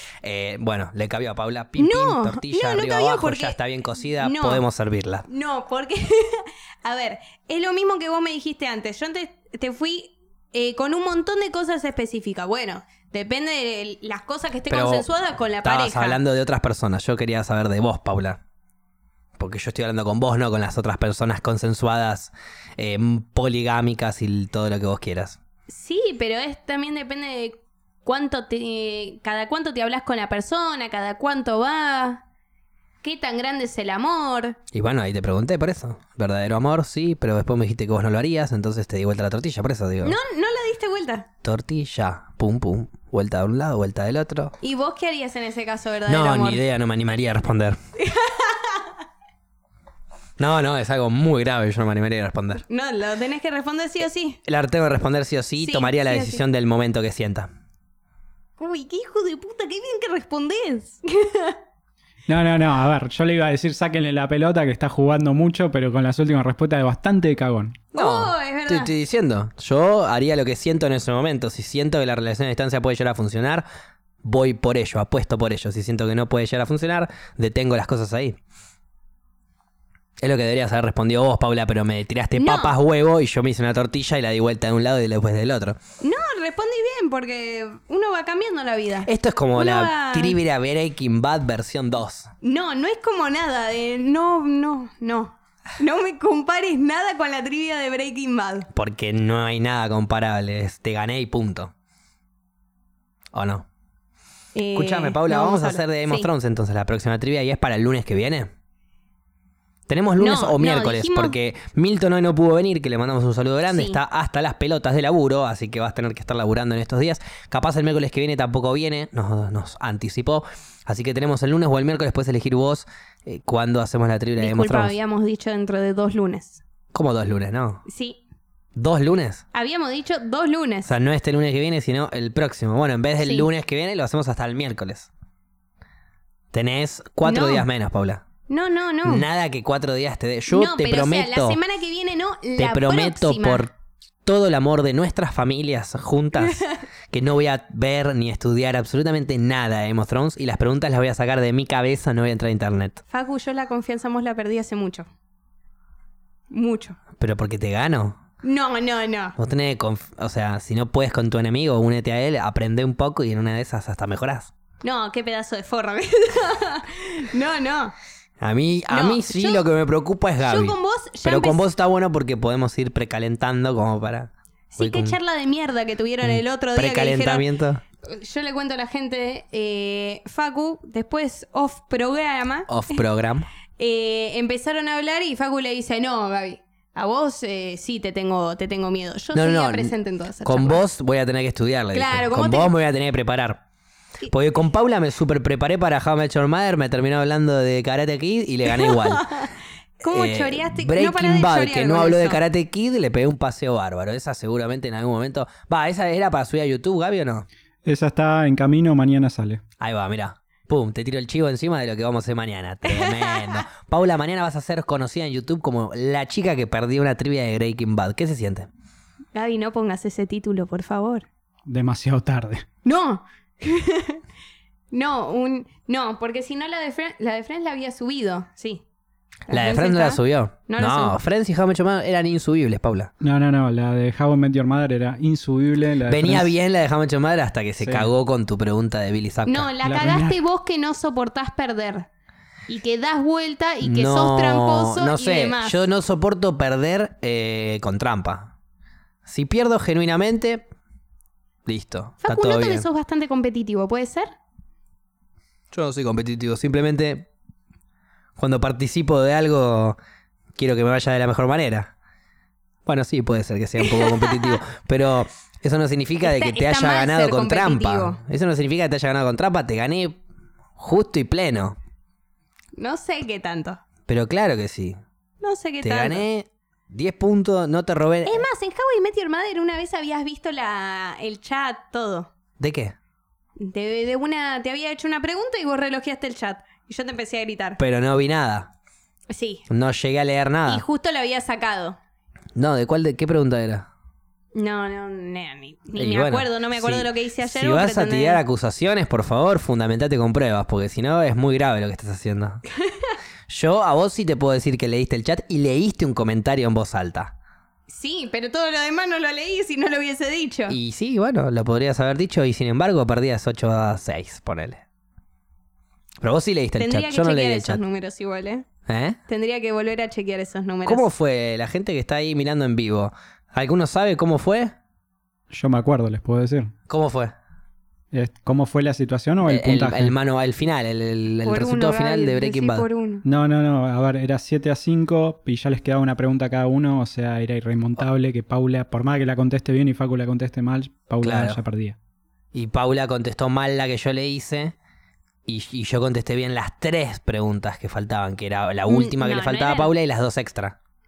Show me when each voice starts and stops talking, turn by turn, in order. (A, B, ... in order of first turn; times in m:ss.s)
0:00.2-0:05.3 A
0:01.8-0:03.6 B
0:04.2-0:04.6 B
0:05.3-0:16.2 B
0:14.7-0:15.1 A
0:15.6-0:18.4 A
0:19.4-0:25.4 A
0:25.7-0:32.2 B
0:33.0-0:34.6 B
0:34.7-0:40.2 A
0:40.0-0:41.3 B
0:41.4-0:44.6 A
0:44.6-0:46.6 B
0:46.1-0:47.8 A
0:48.0-0:49.0 B
0:50.4-0:52.6 A
0:52.7-0:54.4 B
0:54.4-0:57.5 A
0:55.6-0:56.4 B
0:58.6-1:01.6 B
1:02.3-1:07.8 C
1:07.9-1:08.9 B
1:08.0-1:13.6 A
1:14.2-1:18.4 A
1:20.2-1:25.8 A
1:22.4-1:22.8 B
1:26.0-1:30.4 B
1:29.0-1:32.3 A
1:32.4-1:38.7 B
1:38.7-1:41.7 A
1:43.3-1:43.7 A
1:44.6-1:46.3 B
1:44.7-1:48.5 A
1:49.9-2:05.0 A
1:50.2-1:51.4 B
1:53.7-1:54.0 B
2:04.4-2:06.6 B
2:06.9-2:07.8 A
2:07.9-2:08.2 B
2:08.8-2:09.4 A
2:09.5-2:10.9 B
2:10.8-2:15.1 A
2:13.2-2:13.5 B
2:16.5-2:18.2 A
2:17.2-2:17.7 B
2:18.5-2:19.3 B
2:19.0-2:21.6 A
2:20.5-2:23.7 B
2:22.6-2:23.7 A
2:24.3-2:33.0 A
2:26.4-2:26.8 B
2:33.1-2:35.1 B
2:36.5-2:37.0 B
2:37.2-2:38.2 A
2:38.4-2:39.4 B
2:39.4-2:44.5 A
2:44.8-2:47.9 B
2:48.4-2:55.2 A
2:48.9-2:49.6 B
2:50.4-2:51.6 B
2:54.7-2:57.5 B
2:56.2-2:57.8 A
2:58.0-3:03.0 B
3:02.7-3:03.5 A
3:03.8-3:10.8 B
3:09.3-3:09.9 A
3:10.4-3:13.6 A
3:11.9-3:12.7 B
3:14.3-3:19.3 A
3:18.7-3:22.4 B
3:20.1-3:27.5 A
3:27.8-3:29.6 C
3:29.8-3:38.7 A
3:32.9-3:33.6 B
3:39.3-3:41.3 B
3:41.7-3:42.7 C
3:42.8-3:44.2 B
3:44.9-3:48.8 B
3:49.5-3:51.2 B
3:49.5-3:53.1 A
3:53.2-3:56.5 C
3:56.1-3:59.7 A
3:57.8-3:58.1 C
3:59.5-4:02.1 B
3:59.8-4:00.4 C
4:02.7-4:05.8 B
4:03.8-4:08.5 A
4:09.2-4:10.6 A
4:11.7-4:12.9 A
4:12.2-4:14.3 B
4:15.7-4:17.3 A
4:18.4-4:20.0 A
4:20.6-4:21.9 A
4:22.9-4:30.2 A
4:23.8-4:24.6 B
4:26.2-4:28.2 B
4:30.8-4:31.8 A
4:32.8-4:33.8 B
4:34.1-4:35.0 A
4:35.4-4:36.2 B
4:35.8-4:38.5 A
4:38.3-4:42.3 B
4:42.6-4:43.0 A
4:43.6-4:47.8 B
4:47.8-4:48.7 A
4:49.3-4:49.7 B
4:49.7-4:50.8 A
4:50.7-4:52.0 B
4:52.6-4:53.9 A
4:54.5-4:58.4 B
4:56.0-5:02.6 A
5:02.8-5:03.2 B
5:03.5-5:07.3 A
5:07.9-5:10.8 B
5:10.7-5:14.8 A
5:16.2-5:17.8 A
5:16.8-5:18.7 B
5:18.9-5:19.2 A
5:19.3-5:21.1 B
5:20.8-5:24.8 A
5:25.5-5:26.7 C
5:26.9-5:27.4 A
5:28.1-5:30.2 C
5:29.4-5:32.9 A
5:31.5-5:33.2 B
5:33.2-5:42.0 C
5:41.2-5:41.6 A
5:42.5-5:44.8 A
5:45.5-5:50.8 A
5:48.9-5:49.9 B